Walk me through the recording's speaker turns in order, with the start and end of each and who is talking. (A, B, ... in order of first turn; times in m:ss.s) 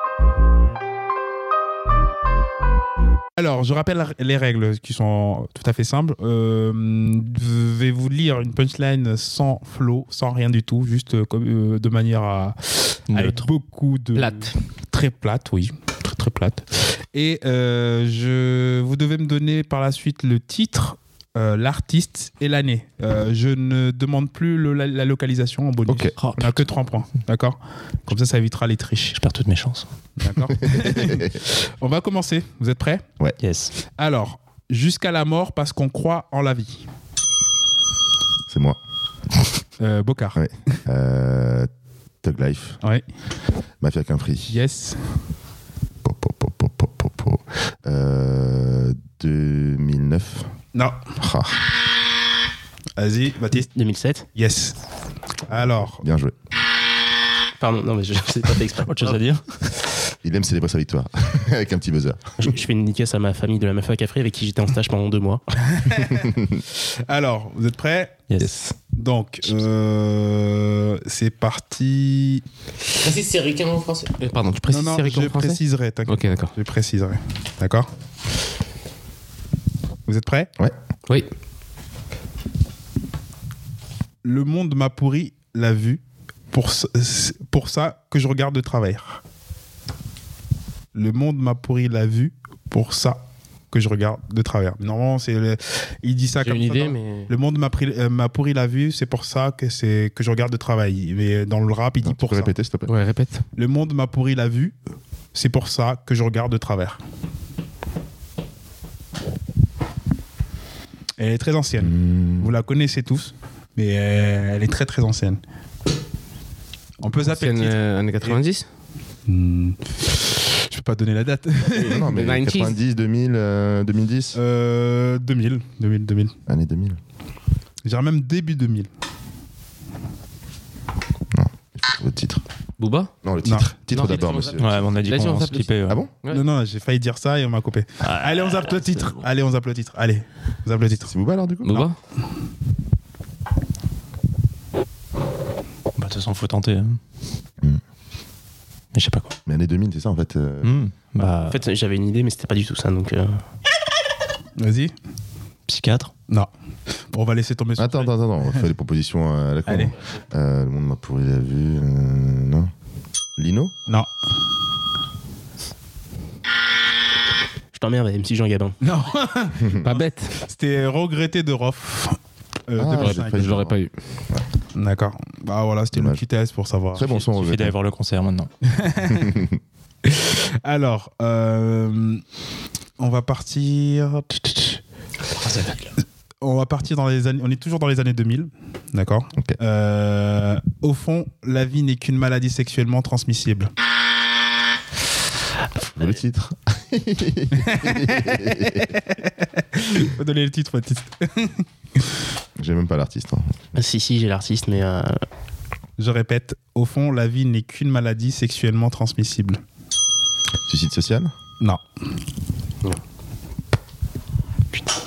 0:03.4-0:29.2 A
0:13.1-0:13.5 B
0:14.1-0:14.5 C
0:25.9-0:26.1 D
0:26.2-0:26.6 B
0:29.1-0:29.8 B
0:30.2-0:33.0 A
0:30.5-0:31.4 D
0:33.4-0:33.7 B
0:33.8-0:36.9 A
0:38.5-0:38.8 D
0:39.8-0:40.8 A
0:40.4-0:41.7 D
0:42.2-0:42.8 D
0:43.8-0:44.5 D
0:44.5-0:45.2 A
0:46.0-0:50.5 D
0:50.7-0:51.1 A
0:51.2-0:51.7 D
0:53.0-0:53.7 A
0:53.7-0:54.2 E
0:54.3-0:54.8 A
0:55.4-0:56.0 A
0:55.5-0:56.3 D
0:57.6-0:59.2 E
0:58.8-0:59.4 B
1:00.2-1:02.5 D
1:02.4-1:05.4 E
1:05.7-1:12.4 A
1:06.2-1:06.6 D
1:08.3-1:08.6 B
1:12.9-1:16.5 C
1:14.7-1:17.9 A
1:20.1-1:20.5 A
1:24.2-1:29.2 A
1:30.9-1:33.2 A
1:33.7-1:42.5 A
1:36.4-1:37.3 C
1:42.0-1:42.9 D
1:42.9-1:43.4 C
1:43.6-1:44.8 A
1:45.3-1:47.0 A
1:51.2-1:55.4 A
1:51.8-1:52.5 D
1:57.0-1:58.4 A
1:57.2-1:58.6 C
1:59.3-2:02.0 A
2:01.7-2:02.8 C
2:01.8-2:04.4 D
2:04.3-2:06.3 A
2:06.5-2:07.0 D
2:07.8-2:08.9 A
2:11.3-2:12.4 D
2:12.8-2:13.1 C
2:13.2-2:14.8 D
2:13.4-2:13.7 A
2:13.9-2:16.4 C
2:14.6-2:16.0 B
2:16.3-2:21.1 A
2:18.1-2:19.2 C
2:21.1-2:21.8 D
2:21.6-2:22.0 C
2:25.9-2:27.0 B
2:28.9-2:29.3 B
2:29.4-2:30.7 D
2:30.6-2:31.6 B
2:31.5-2:33.4 E
2:34.6-2:34.9 A
2:35.7-2:36.1 B
2:37.1-2:38.6 A
2:37.8-2:42.7 D
2:39.7-2:39.9 A
2:43.4-2:43.7 D
2:47.7-2:48.8 E
2:48.8-2:53.4 A
2:49.6-2:49.8 D
2:49.8-2:50.4 C
2:52.8-2:53.8 D
2:53.0-2:53.9 C
2:54.7-2:57.1 A
2:55.9-2:56.2 D
2:56.9-2:57.8 D
2:57.1-2:58.5 B
2:58.6-2:59.4 A
2:59.1-2:59.6 D
3:00.0-3:02.2 A
3:03.0-3:04.8 A
3:05.4-3:05.8 B
3:06.4-3:13.7 A
3:16.0-3:18.9 D
3:17.5-3:21.6 A
3:22.6-3:23.6 D
3:23.7-3:25.2 E
3:26.0-3:29.6 A
3:30.7-3:31.3 D